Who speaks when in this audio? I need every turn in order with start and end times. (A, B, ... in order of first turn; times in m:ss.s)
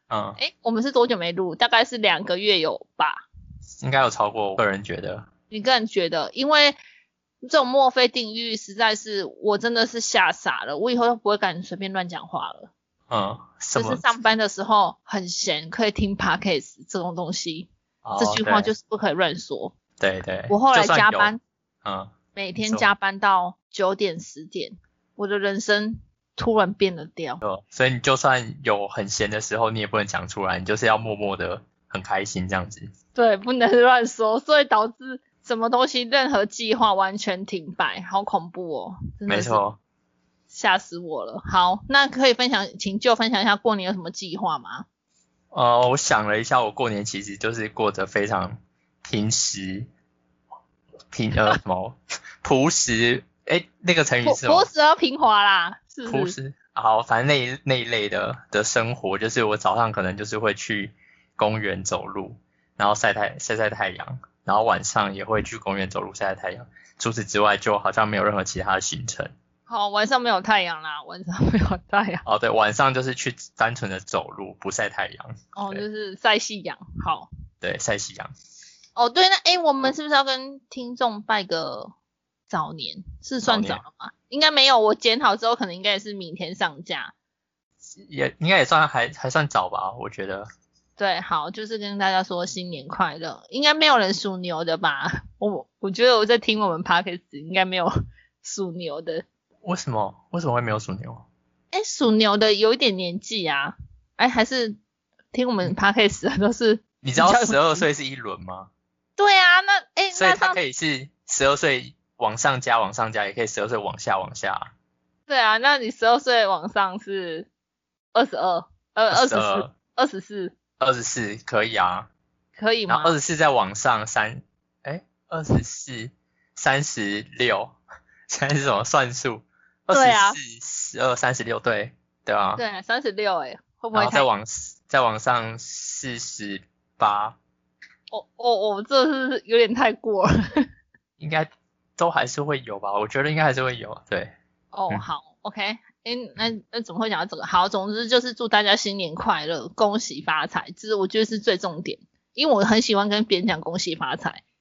0:00.1-0:00.4 A
0:00.4-0:03.2 B
0:03.8-0:05.3 A
0:05.5-0:06.8 B
0:07.4-0:12.7 B
0:13.1-0:14.0 A
0:13.8-0:17.7 B
0:18.0-0:18.7 A
0:18.2-0:19.7 B
0:20.0-0:21.3 A
0:20.5-0:21.4 B
0:21.8-0:22.1 A
0:22.4-0:27.4 B
0:22.6-0:22.9 A
0:27.4-0:32.9 A
0:33.2-0:39.6 B
0:39.3-0:39.8 A
0:40.5-0:44.9 B
0:45.5-0:49.9 A
0:51.1-0:54.7 A
0:54.2-0:56.4 B
0:56.1-1:09.3 A
1:09.7-1:12.2 B
1:12.2-1:15.8 A
1:15.6-1:17.3 B
1:17.6-1:18.3 A
1:19.0-1:21.9 B
1:22.5-1:27.1 B
1:23.4-1:23.8 A
1:28.0-1:30.5 A
1:31.0-1:37.9 B
1:38.4-1:39.2 B
1:39.6-1:41.2 A
1:41.7-1:44.8 B
1:45.3-1:47.8 B
1:47.0-1:48.7 A
1:49.2-1:50.6 B
1:50.1-1:54.7 A
1:55.3-1:57.5 B
1:58.1-2:00.5 B
1:59.1-1:59.7 A
2:00.8-2:02.1 A
2:02.6-2:03.2 B
2:02.9-2:07.8 A
2:08.3-2:12.6 A
2:09.9-2:10.4 B
2:12.6-2:14.3 B
2:13.9-2:17.4 A
2:18.1-2:20.3 B
2:21.2-2:24.3 A
2:24.7-2:34.4 B